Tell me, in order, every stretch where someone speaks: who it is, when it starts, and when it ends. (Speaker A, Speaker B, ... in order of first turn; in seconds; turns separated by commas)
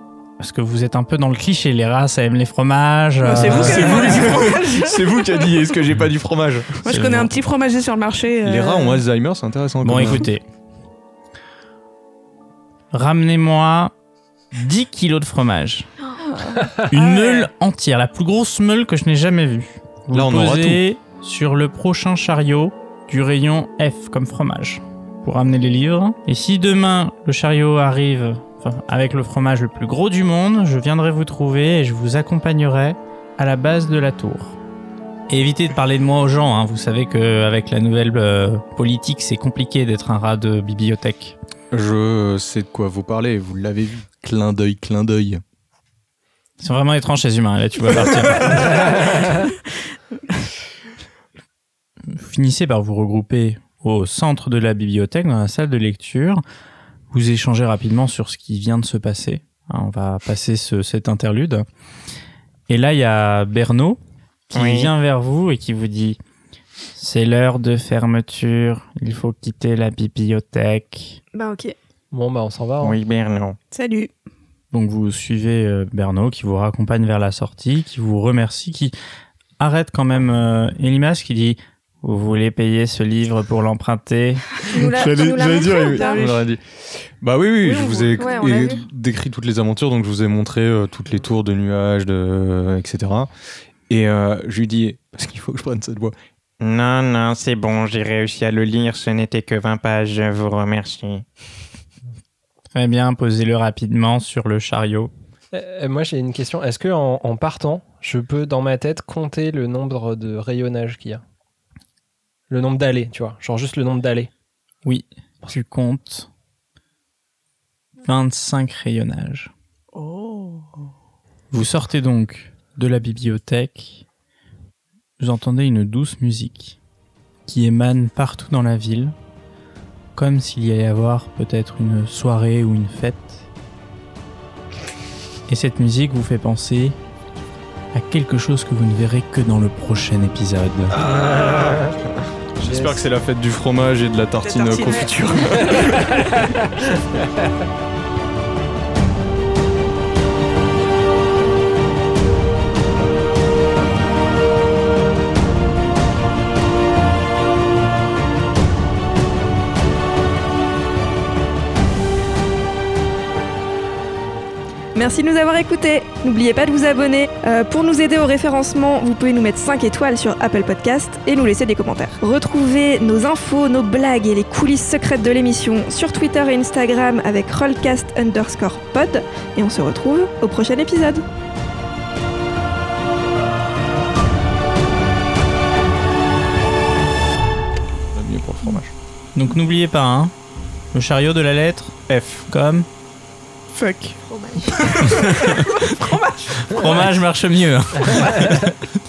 Speaker A: 0.4-4.2, Speaker B: 3.2-5.5, Speaker C: 3.3-6.8, Speaker B: 6.8-9.0, Speaker A: 6.8-7.3, Speaker C: 8.4-10.3, Speaker A: 9.8-10.4, Speaker A: 12.9-13.9, Speaker A: 14.5-15.9, Speaker B: 16.2-17.4, Speaker A: 16.8-34.6, Speaker C: 20.1-20.8, Speaker A: 35.3-41.4, Speaker C: 41.7-45.4, Speaker A: 46.6-48.9, Speaker A: 52.1-56.4, Speaker A: 57.1-61.6, Speaker A: 62.7-64.0, Speaker A: 64.5-66.2, Speaker D: 64.5-64.9, Speaker A: 66.9-71.2, Speaker E: 71.3-71.7, Speaker F: 72.1-73.0, Speaker D: 72.8-73.6, Speaker B: 73.7-74.1, Speaker A: 74.7-78.9, Speaker A: 79.6-84.4, Speaker E: 84.6-86.2, Speaker C: 84.7-93.3, Speaker B: 85.7-86.4, Speaker B: 87.6-88.4, Speaker E: 88.1-88.8, Speaker C: 93.9-96.1, Speaker D: 96.6-101.2, Speaker A: 102.7-105.1, Speaker F: 105.5-111.2, Speaker F: 112.5-114.3, Speaker A: 114.8-116.3, Speaker A: 118.0-119.5, Speaker B: 119.9-120.8, Speaker A: 121.5-124.0, Speaker A: 125.2-126.8, Speaker A: 127.5-129.1, Speaker A: 130.1-133.4, Speaker A: 135.5-136.9, Speaker A: 137.9-140.9, Speaker C: 141.0-142.0, Speaker F: 141.5-141.8, Speaker C: 142.6-146.2, Speaker F: 142.6-143.0, Speaker B: 144.4-145.9, Speaker E: 164.9-181.2, Speaker C: 188.1-188.9, Speaker A: 189.3-190.3, Speaker A: 190.9-192.9, Speaker C: 192.1-192.5, Speaker B: 193.7-194.2, Speaker E: 194.3-195.4, Speaker B: 194.8-197.0, Speaker A: 195.4-195.6, Speaker A: 196.6-198.7, Speaker F: 198.0-198.7